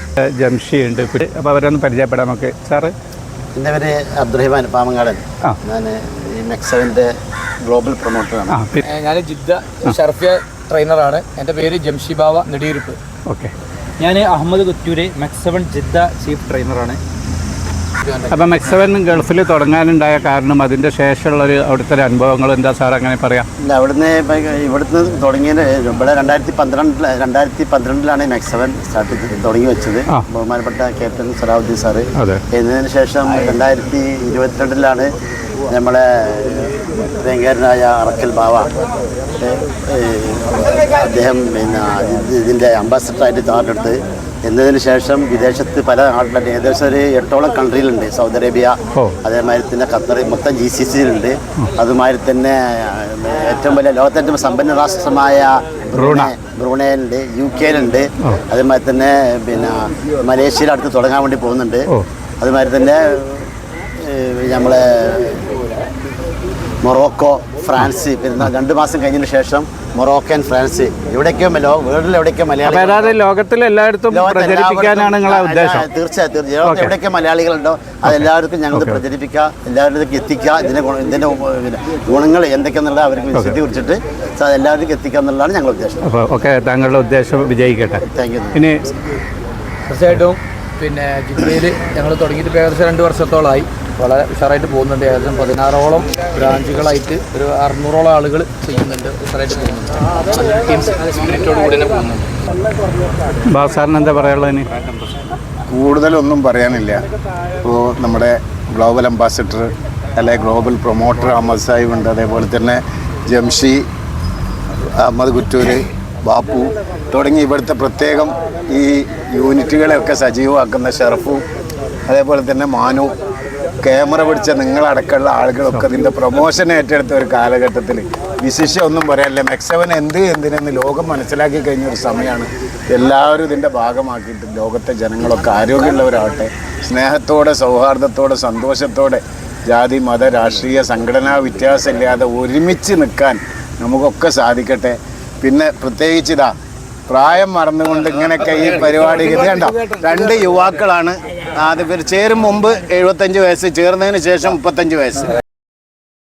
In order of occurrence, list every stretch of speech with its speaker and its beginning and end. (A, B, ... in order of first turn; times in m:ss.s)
0:00.2-0:02.9 A
0:03.5-0:08.6 B
0:08.5-0:08.8 A
0:08.8-0:13.0 C
0:13.3-0:13.5 A
0:14.0-0:17.0 D
0:18.1-0:18.3 C
0:18.3-0:23.5 A
0:23.6-0:35.1 B
0:35.7-0:38.7 B
0:39.4-1:01.9 B
0:56.0-0:56.3 A
1:02.4-1:03.5 B
1:04.0-1:05.4 B
1:06.8-1:13.2 B
1:12.6-1:15.8 A
1:14.1-1:26.0 B
1:16.6-1:16.9 A
1:18.7-1:19.0 A
1:26.0-1:28.0 A
1:28.1-1:28.6 B
1:28.5-1:28.8 A
1:29.9-1:42.3 C
1:43.5-1:44.7 A
1:45.7-1:47.0 E
1:47.6-1:53.8 E
1:55.0-2:01.4 E
2:02.1-2:03.2 E
2:03.8-2:26.5 E
2:27.1-2:35.3 E